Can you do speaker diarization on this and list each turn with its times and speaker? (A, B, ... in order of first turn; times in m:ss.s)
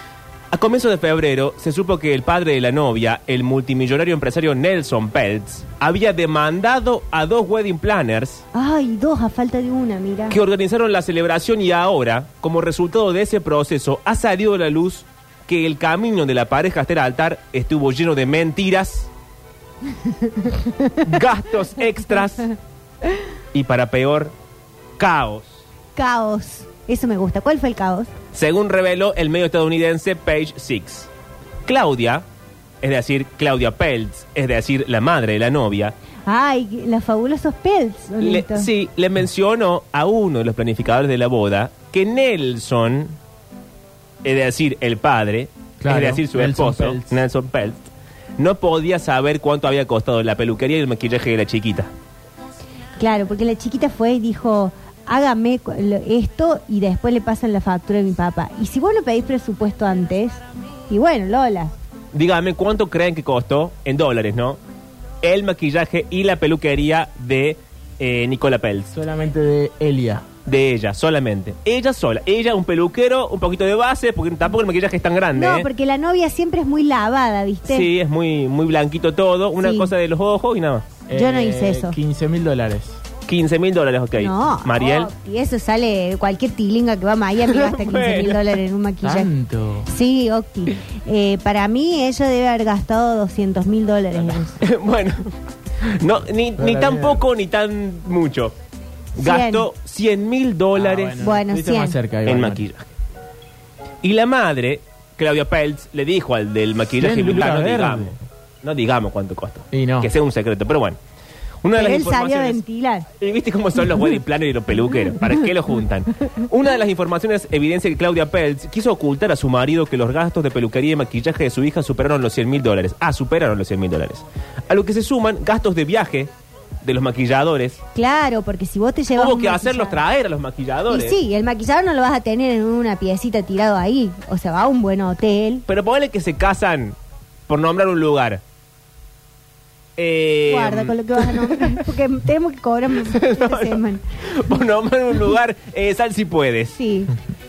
0:00.5-0:08.4 A
0:08.5-0:10.4 B
0:10.3-0:19.1 A
0:20.1-0:21.0 B
0:21.0-0:22.5 A
0:23.5-0:24.3 A
0:25.0-0:25.6 A
0:26.0-0:28.1 B
0:28.3-0:31.1 A
0:31.7-0:32.2 A
0:32.8-0:35.9 A
0:36.3-0:38.7 B
0:38.2-0:43.2 A
0:44.2-0:51.9 A
0:45.8-0:47.2 C
0:53.0-1:01.7 B
1:02.1-1:04.6 A
1:05.2-1:08.9 A
1:08.9-1:10.2 C
1:10.5-1:15.7 A
1:15.4-1:17.9 B
1:17.7-1:20.9 A
1:19.6-1:19.9 B
1:21.1-1:23.0 C
1:21.1-1:22.0 B
1:23.3-1:25.1 A
1:24.2-1:29.3 B
1:27.4-1:28.6 A
1:29.0-1:29.9 C
1:29.9-1:34.6 B
1:34.6-1:35.3 A
1:35.8-1:38.5 A
1:36.6-1:37.2 C
1:39.2-1:39.7 B
1:39.2-1:41.2 A
1:40.7-1:42.6 C
1:41.2-1:42.0 B
1:42.3-1:42.9 A
1:44.0-1:51.0 A
1:47.0-1:48.2 C
1:49.7-1:50.1 C
1:51.6-1:52.6 A
1:51.8-1:53.1 B
1:53.2-2:06.3 A
2:06.8-2:07.8 A
2:08.0-2:10.0 B
2:09.2-2:11.2 A
2:10.9-2:15.6 B
2:15.7-2:17.0 A
2:17.5-2:18.4 A
2:20.0-2:21.8 A
2:20.5-2:24.0 B
2:23.0-2:26.8 A
2:26.8-2:27.1 B